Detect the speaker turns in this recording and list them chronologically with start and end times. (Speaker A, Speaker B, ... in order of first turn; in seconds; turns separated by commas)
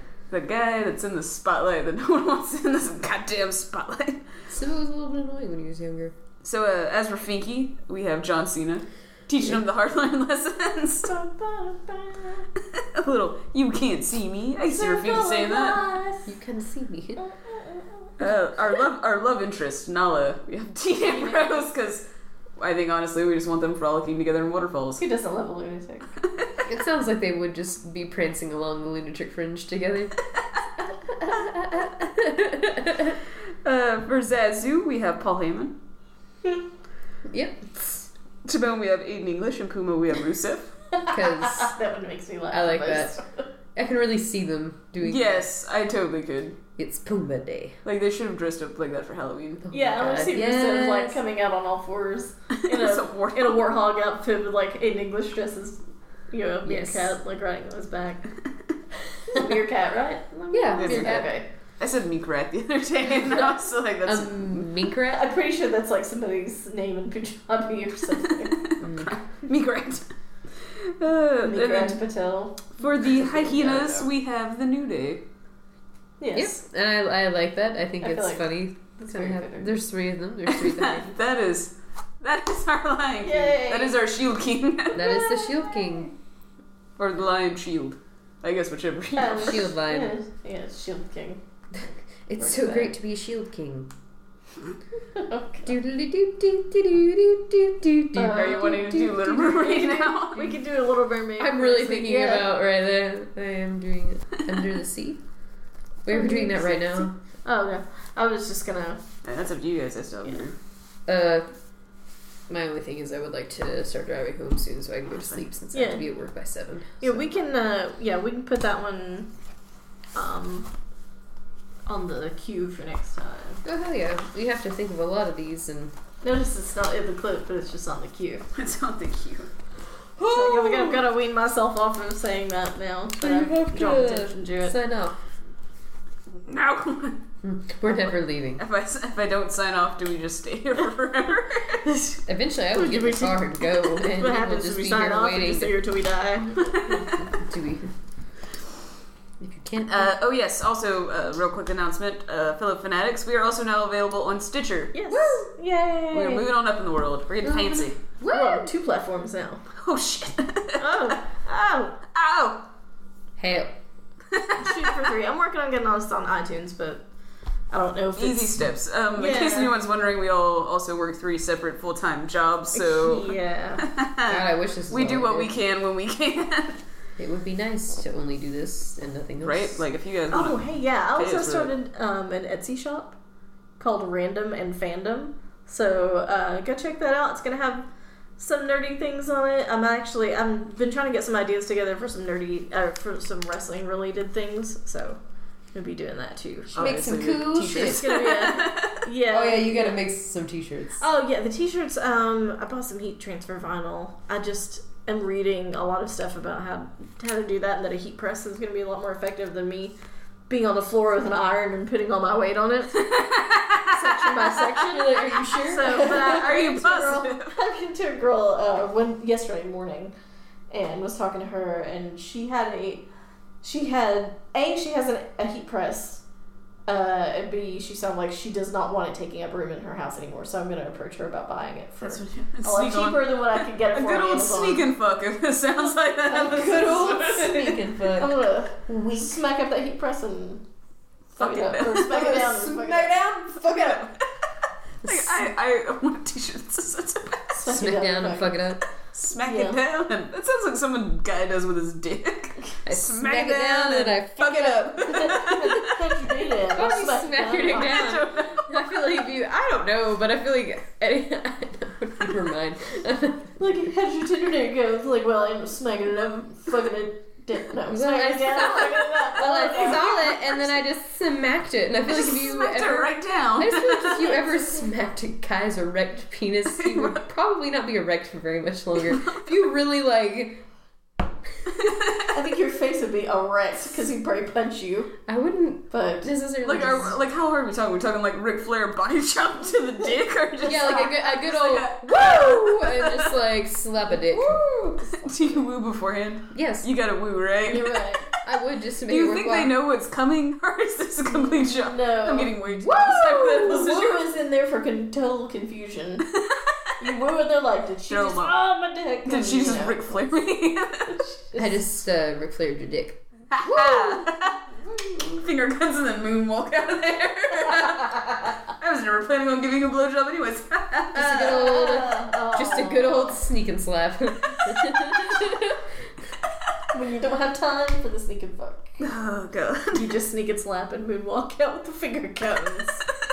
Speaker A: 0.3-4.3, Speaker B: 4.5-6.2, Speaker A: 6.4-11.1, Speaker C: 11.0-12.5, Speaker A: 12.6-15.8, Speaker C: 14.7-16.3, Speaker B: 16.3-17.2, Speaker C: 17.2-18.2, Speaker A: 18.2-22.1, Speaker C: 21.1-21.6, Speaker A: 22.6-25.0, Speaker C: 25.0-26.1, Speaker A: 26.2-26.6, Speaker B: 26.7-30.2, Speaker B: 31.1-33.2, Speaker A: 33.6-35.8, Speaker B: 37.3-37.8, Speaker A: 38.5-40.8, Speaker C: 40.9-43.5, Speaker B: 41.1-41.7, Speaker B: 42.5-43.2, Speaker B: 43.8-45.4, Speaker A: 45.0-46.6, Speaker B: 46.8-47.8, Speaker A: 47.8-49.7, Speaker B: 49.6-51.2, Speaker C: 49.7-58.3, Speaker A: 52.6-53.7, Speaker B: 56.6-57.1, Speaker C: 59.2-61.5, Speaker B: 60.5-61.3, Speaker A: 60.8-64.7, Speaker B: 64.0-65.3, Speaker C: 65.1-68.6, Speaker A: 68.5-72.0, Speaker B: 68.8-69.1, Speaker C: 71.4-74.1, Speaker A: 72.7-75.2, Speaker C: 76.2-76.6, Speaker B: 76.3-81.1, Speaker C: 78.0-79.7, Speaker A: 80.5-85.2, Speaker C: 83.2-84.0, Speaker B: 84.9-86.1, Speaker C: 85.0-86.0, Speaker A: 87.0-89.7, Speaker C: 89.2-91.4, Speaker B: 89.3-90.1, Speaker B: 91.7-93.9, Speaker C: 92.4-93.0, Speaker C: 95.1-95.7, Speaker B: 95.7-99.8, Speaker C: 98.2-102.5, Speaker A: 98.3-100.5, Speaker B: 101.4-105.2, Speaker B: 106.0-107.2, Speaker C: 106.1-109.0, Speaker A: 109.2-110.5, Speaker B: 111.1-111.5, Speaker B: 112.5-117.3, Speaker A: 115.2-115.4, Speaker C: 115.7-116.1, Speaker C: 117.0-119.3, Speaker C: 120.2-120.7, Speaker C: 121.9-123.6, Speaker B: 123.7-125.9, Speaker C: 126.2-128.4, Speaker A: 128.6-129.5, Speaker A: 130.2-130.9, Speaker C: 130.2-134.8, Speaker B: 133.2-135.2, Speaker A: 136.4-137.2, Speaker B: 137.4-138.6, Speaker A: 138.6-141.9, Speaker C: 141.9-142.2, Speaker B: 142.2-145.7, Speaker C: 142.7-147.1, Speaker A: 146.6-147.2, Speaker B: 147.1-147.9, Speaker B: 149.4-150.2, Speaker A: 149.9-155.0, Speaker C: 154.9-156.5, Speaker B: 155.1-155.4, Speaker A: 156.1-158.0, Speaker B: 157.4-158.7, Speaker C: 158.3-159.7, Speaker A: 159.8-161.2, Speaker C: 160.8-162.0, Speaker A: 162.1-162.7, Speaker B: 163.4-163.8, Speaker A: 164.3-165.1, Speaker C: 164.6-167.1, Speaker C: 167.7-168.6, Speaker A: 168.2-176.8, Speaker C: 169.2-169.8, Speaker C: 172.7-173.9, Speaker B: 174.3-175.6, Speaker B: 177.2-179.8, Speaker A: 179.4-181.7, Speaker C: 180.3-183.2, Speaker C: 183.8-195.2, Speaker C: 195.7-197.0, Speaker A: 196.7-199.0, Speaker B: 196.8-198.3, Speaker C: 197.8-200.0, Speaker B: 199.3-201.0, Speaker C: 201.0-210.0, Speaker C: 210.5-213.1, Speaker A: 212.9-214.7, Speaker C: 213.9-220.2, Speaker B: 214.7-217.1, Speaker A: 215.5-217.6, Speaker C: 220.7-223.1, Speaker C: 223.6-226.2, Speaker C: 226.9-234.9, Speaker A: 232.0-237.9, Speaker B: 236.3-239.4, Speaker C: 238.2-240.7, Speaker C: 241.4-244.1, Speaker A: 241.4-244.2, Speaker B: 245.0-245.5, Speaker A: 245.0-247.7, Speaker C: 247.5-248.6, Speaker B: 247.7-248.8, Speaker A: 249.1-256.0, Speaker C: 249.4-249.8, Speaker B: 252.9-255.9, Speaker C: 255.1-258.2, Speaker B: 256.7-263.6, Speaker A: 257.6-259.0, Speaker C: 263.6-270.2, Speaker B: 267.9-280.7, Speaker A: 269.6-270.6, Speaker A: 272.1-274.4, Speaker A: 276.8-277.2, Speaker A: 279.1-279.5, Speaker A: 281.7-282.3, Speaker C: 282.3-285.1, Speaker B: 285.3-287.2, Speaker C: 285.9-286.3, Speaker A: 286.6-293.4, Speaker B: 290.6-294.6, Speaker C: 290.6-291.3, Speaker A: 294.3-298.4, Speaker B: 296.5-296.9, Speaker C: 297.6-298.3, Speaker B: 298.4-299.8, Speaker A: 299.1-304.3, Speaker C: 301.4-302.6, Speaker B: 302.7-303.6, Speaker C: 303.2-306.3, Speaker A: 306.3-307.2, Speaker C: 307.0-310.4, Speaker A: 308.1-308.6, Speaker A: 309.3-311.2, Speaker C: 311.1-311.8, Speaker B: 311.5-314.3, Speaker A: 313.5-321.7, Speaker B: 321.1-326.1, Speaker C: 321.5-323.4, Speaker C: 326.9-329.0, Speaker A: 329.0-330.2, Speaker C: 329.9-333.1